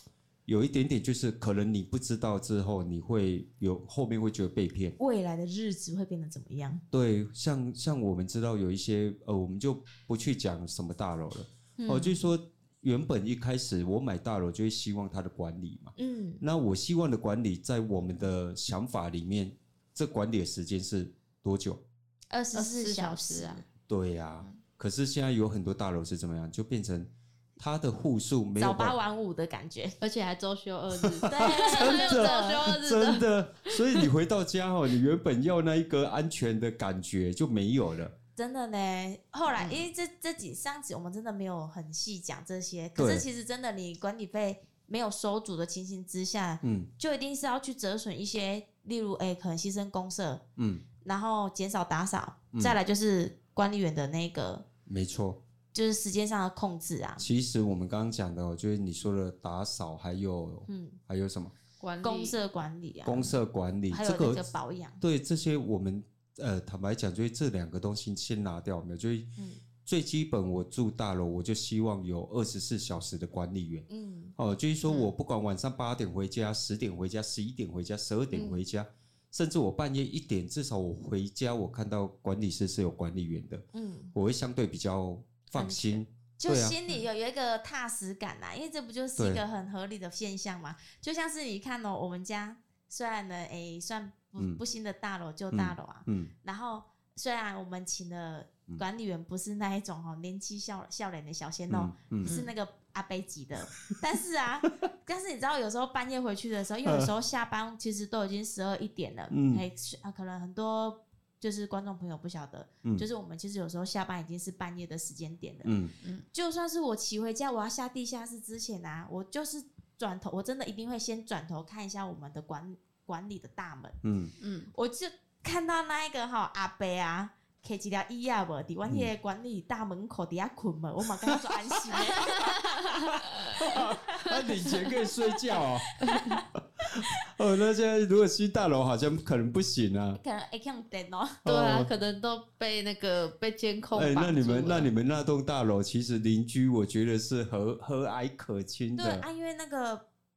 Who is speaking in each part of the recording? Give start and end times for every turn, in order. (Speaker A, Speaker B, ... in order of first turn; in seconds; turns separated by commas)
Speaker A: 0.5-5.0, Speaker B: 5.0-6.8, Speaker A: 6.9-21.8, Speaker B: 11.8-12.3, Speaker B: 15.9-16.4, Speaker B: 22.3-23.6, Speaker C: 22.5-23.6, Speaker A: 23.9-28.9, Speaker B: 28.6-29.9, Speaker C: 30.0-34.1, Speaker A: 31.0-38.1, Speaker B: 31.3-32.6, Speaker B: 38.4-50.4, Speaker C: 39.5-39.8, Speaker A: 43.0-43.2, Speaker A: 46.6-46.9, Speaker A: 50.6-50.8, Speaker B: 51.0-54.6, Speaker A: 52.5-52.8, Speaker A: 54.9-55.4, Speaker B: 55.7-57.2, Speaker A: 57.2-61.5, Speaker B: 60.7-61.0, Speaker C: 61.8-62.4, Speaker B: 62.0-63.4, Speaker A: 63.0-64.5, Speaker B: 63.9-65.0, Speaker A: 65.0-69.3, Speaker A: 69.8-86.7, Speaker B: 73.9-74.3, Speaker B: 78.3-78.6, Speaker B: 83.7-84.1, Speaker B: 85.5-115.7, Speaker A: 89.2-89.4, Speaker A: 95.5-96.3, Speaker A: 101.7-102.4, Speaker C: 102.2-102.5, Speaker A: 106.8-107.1, Speaker A: 109.3-109.6, Speaker A: 115.6-115.9, Speaker B: 116.3-124.0, Speaker A: 124.0-124.3, Speaker C: 124.4-124.7, Speaker B: 124.7-133.2, Speaker A: 131.2-132.5, Speaker C: 132.3-132.8, Speaker A: 133.1-135.9, Speaker C: 133.3-133.6, Speaker B: 133.7-134.3, Speaker B: 135.9-137.2, Speaker A: 136.8-140.2, Speaker B: 140.2-141.4, Speaker A: 141.4-141.9, Speaker C: 141.4-144.9, Speaker A: 143.9-149.2, Speaker B: 148.9-150.0